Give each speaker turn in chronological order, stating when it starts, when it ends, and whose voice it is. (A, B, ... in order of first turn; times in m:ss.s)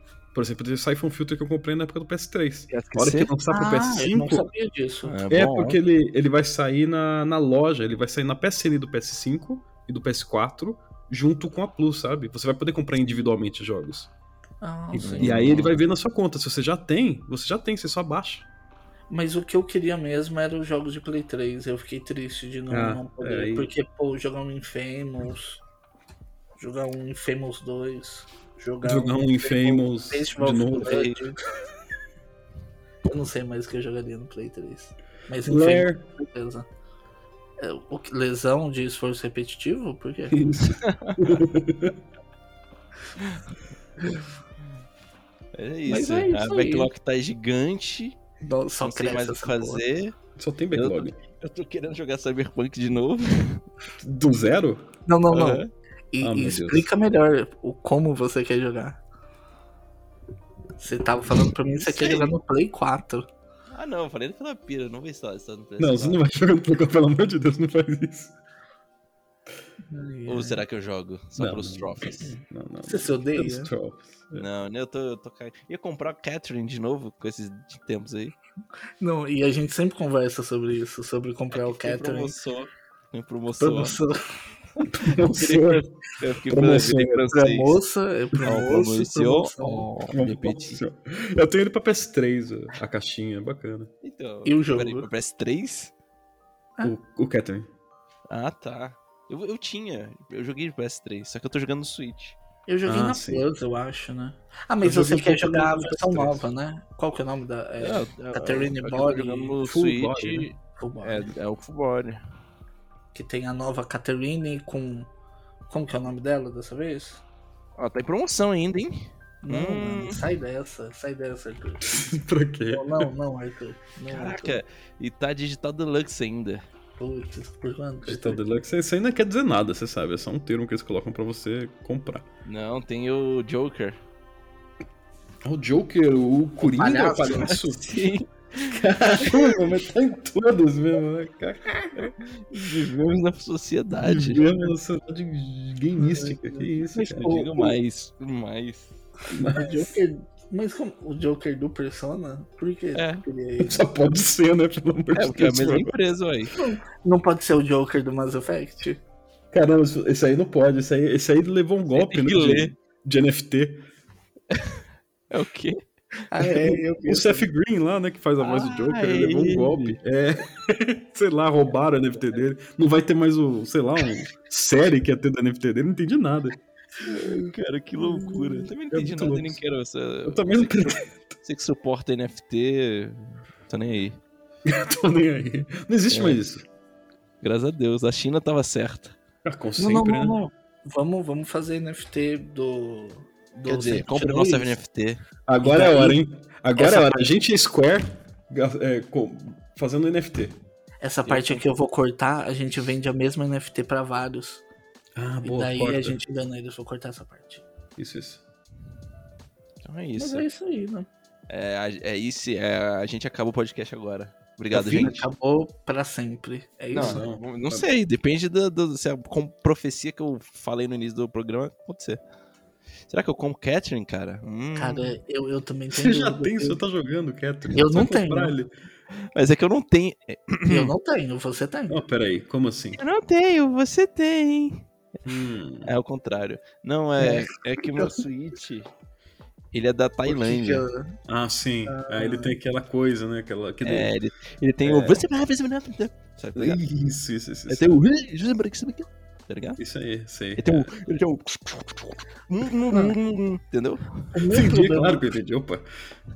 0:00.3-0:04.5 A
0:02.7-0:03.3 B
0:03.5-0:05.2 C
0:05.0-0:05.8 B
0:05.3-0:14.1 A
0:14.6-0:15.6 C
0:14.9-0:15.8 B
0:15.0-0:18.5 A
0:19.1-0:25.6 C
0:22.7-0:23.7 A
0:26.6-0:31.4 C
0:28.8-0:31.1 A
0:30.8-0:31.2 B
0:33.0-0:36.7 C
0:35.5-0:36.0 A
0:37.6-0:40.4 C
0:40.3-0:42.0 A
0:40.8-0:41.2 B
0:45.5-0:48.2 B
0:45.9-0:46.9 C
0:48.4-0:49.8 C
0:48.8-0:50.2 B
0:50.4-0:51.2 A
0:50.7-0:53.6 B
0:54.0-0:54.9 A
0:55.1-0:59.0 C
0:55.3-0:55.7 B
0:56.2-0:56.9 A
1:00.8-1:03.3 C
1:01.8-1:02.3 B
1:03.7-1:06.2 B
1:05.8-1:08.4 A
1:09.9-1:10.6 C
1:10.3-1:12.4 B
1:11.4-1:14.5 A
1:12.8-1:13.7 C
1:14.4-1:18.4 B
1:19.0-1:22.4 C
1:21.5-1:24.0 B
1:23.6-1:24.2 C
1:24.8-1:25.8 A
1:25.2-1:27.8 B
1:26.5-1:27.3 A
1:27.3-1:29.9 C
1:28.4-1:30.8 B
1:30.1-1:33.9 A
1:34.0-1:35.9 B
1:34.4-1:35.1 C
1:36.8-1:37.7 A
1:38.3-1:42.4 B
1:42.7-1:49.6 C
1:42.9-1:43.5 A
1:44.8-1:46.4 A
1:47.8-1:52.2 B
1:49.6-1:50.5 A
1:50.8-1:51.3 C
1:53.1-1:55.1 C
1:55.7-1:57.2 C
1:57.8-2:00.2 B
1:59.4-2:02.2 C
2:01.9-2:03.1 A
2:02.7-2:04.6 C
2:04.1-2:06.6 B
2:07.0-2:08.4 C
2:08.1-2:12.3 A
2:12.4-2:14.0 B
2:15.4-2:18.0 A
2:16.6-2:17.6 C
2:17.4-2:19.6 B
2:18.6-2:22.8 A
2:22.0-2:24.7 B
2:24.0-2:27.5 A
2:26.0-2:27.8 C
2:27.1-2:28.9 B
2:29.3-2:30.0 A
2:29.3-2:33.9 C
2:33.0-2:33.2 B
2:33.6-2:35.9 A
2:35.2-2:36.5 B
2:36.6-2:39.0 C
2:39.5-2:43.8 A
2:41.9-2:42.7 B
2:44.5-2:45.8 B
2:46.3-2:47.5 C
2:46.6-2:56.6 A
2:48.4-2:50.0 B
2:57.0-3:04.2 B
2:58.0-2:58.5 C
2:58.9-2:59.6 A
3:00.2-3:01.4 A
3:04.6-3:06.7 A
3:06.1-3:06.4 B
3:07.4-3:09.2 B
3:09.4-3:10.4 A
3:09.8-3:14.8 C
3:13.6-3:15.2 B
3:15.5-3:20.6 A
3:15.6-3:16.2 C
3:16.8-3:17.3 C
3:21.0-3:24.6 C
3:21.3-3:21.6 B
3:25.2-3:26.2 A
3:25.4-3:27.6 C
3:28.0-3:28.4 A
3:29.8-3:30.5 B
3:30.2-3:31.1 C
3:31.5-3:35.3 B
3:34.7-3:37.2 C
3:34.8-3:35.1 A
3:36.9-3:42.2 B
3:36.9-3:37.9 A
3:43.1-3:45.2 B
3:44.8-3:46.8 C
3:45.9-3:48.7 A
3:47.8-3:48.6 C
3:49.3-3:50.9 B
3:50.7-3:52.0 C
3:51.9-3:53.0 A
3:53.0-3:54.9 B
3:55.2-3:55.9 A
3:55.8-3:58.9 B
3:57.2-3:58.2 C
3:59.7-4:00.9 B
4:00.3-4:01.2 C
4:01.3-4:04.1 A
4:01.9-4:02.6 C
4:03.8-4:06.8 B
4:04.8-4:05.2 A
4:06.6-4:08.0 A
4:07.7-4:09.8 B
4:09.8-4:10.9 A
4:10.6-4:14.3 B
4:12.9-4:13.2 C
4:14.3-4:15.3 C
4:14.5-4:15.8 A